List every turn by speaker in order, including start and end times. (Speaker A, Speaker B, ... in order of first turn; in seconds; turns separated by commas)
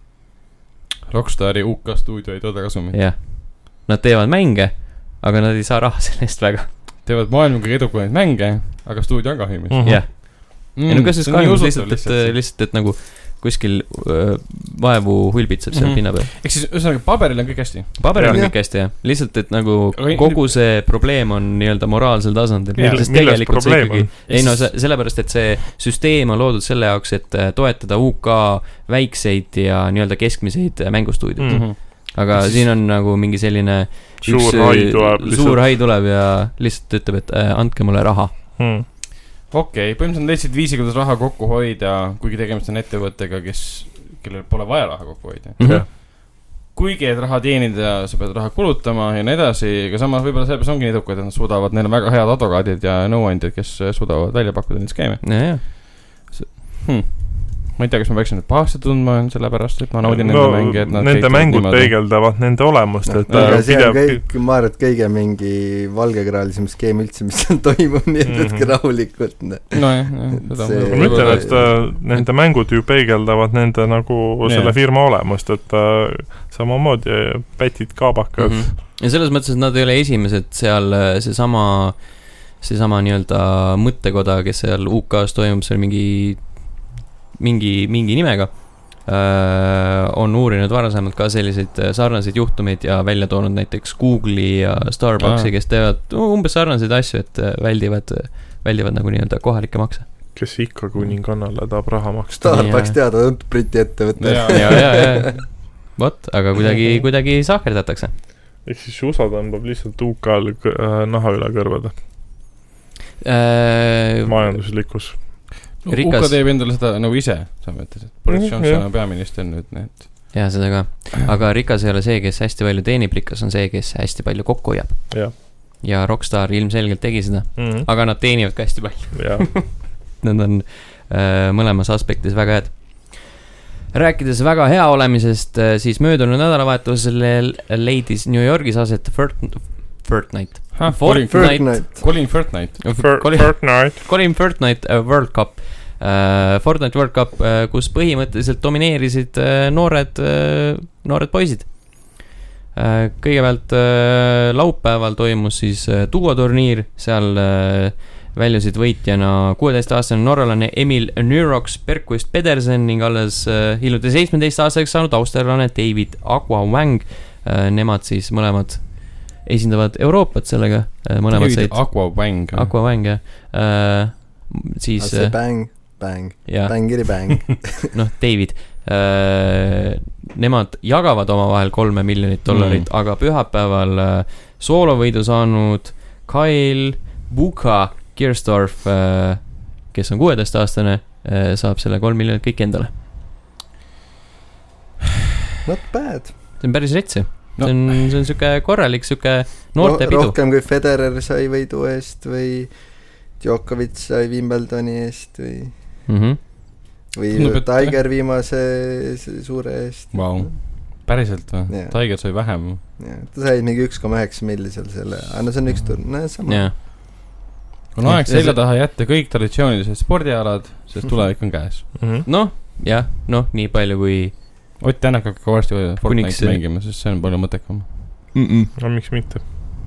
Speaker A: 1.1-3.0, Speaker B: 2.9-6.7, Speaker A: 7.0-12.4, Speaker C: 9.7-10.0, Speaker B: 9.8-16.3, Speaker A: 15.7-18.2, Speaker B: 18.0-38.4, Speaker C: 18.2-18.4, Speaker D: 18.3-18.6, Speaker A: 19.9-20.6, Speaker A: 22.8-23.1, Speaker C: 22.8-24.1, Speaker A: 24.3-24.7, Speaker C: 31.4-31.7, Speaker A: 31.5-32.6, Speaker C: 34.2-35.7, Speaker C: 38.6-38.9, Speaker A: 39.5-62.0, Speaker B: 45.6-45.9, Speaker C: 45.6-45.9, Speaker B: 55.2-55.6, Speaker C: 60.0-64.2, Speaker D: 63.0-71.8, Speaker A: 63.3-63.8, Speaker C: 68.2-68.7, Speaker A: 69.7-72.2, Speaker C: 70.9-78.7, Speaker A: 74.4-74.8, Speaker B: 78.4-100.4, Speaker A: 95.2-95.5, Speaker C: 100.3-102.6, Speaker D: 102.4-105.2, Speaker B: 102.5-103.0, Speaker A: 104.2-105.2, Speaker B: 104.5-108.2, Speaker C: 108.6-112.0, Speaker B: 113.2-114.6, Speaker C: 114.2-115.5, Speaker A: 115.8-120.5, Speaker B: 115.9-116.4, Speaker C: 118.3-118.8, Speaker B: 120.3-133.4, Speaker C: 127.6-127.9, Speaker C: 129.1-129.7, Speaker B: 133.9-142.1, Speaker A: 140.8-142.9, Speaker D: 141.0-142.1, Speaker B: 142.8-175.9, Speaker C: 143.0-144.0, Speaker A: 171.3-172.7, Speaker D: 175.0-177.8, Speaker B: 176.5-192.9, Speaker A: 182.5-182.9, Speaker D: 195.7-196.3, Speaker B: 196.6-200.4, Speaker A: 197.6-198.2, Speaker D: 199.8-205.7, Speaker B: 206.1-206.4, Speaker D: 207.1-210.5, Speaker A: 207.3-208.0, Speaker A: 210.1-212.8, Speaker D: 211.7-212.1, Speaker D: 213.0-216.7, Speaker B: 216.4-216.8, Speaker A: 217.9-221.9, Speaker B: 218.1-218.6, Speaker C: 221.9-222.3, Speaker B: 222.2-224.4, Speaker A: 224.8-227.9, Speaker B: 226.0-226.6, Speaker B: 228.3-228.7, Speaker C: 228.8-229.4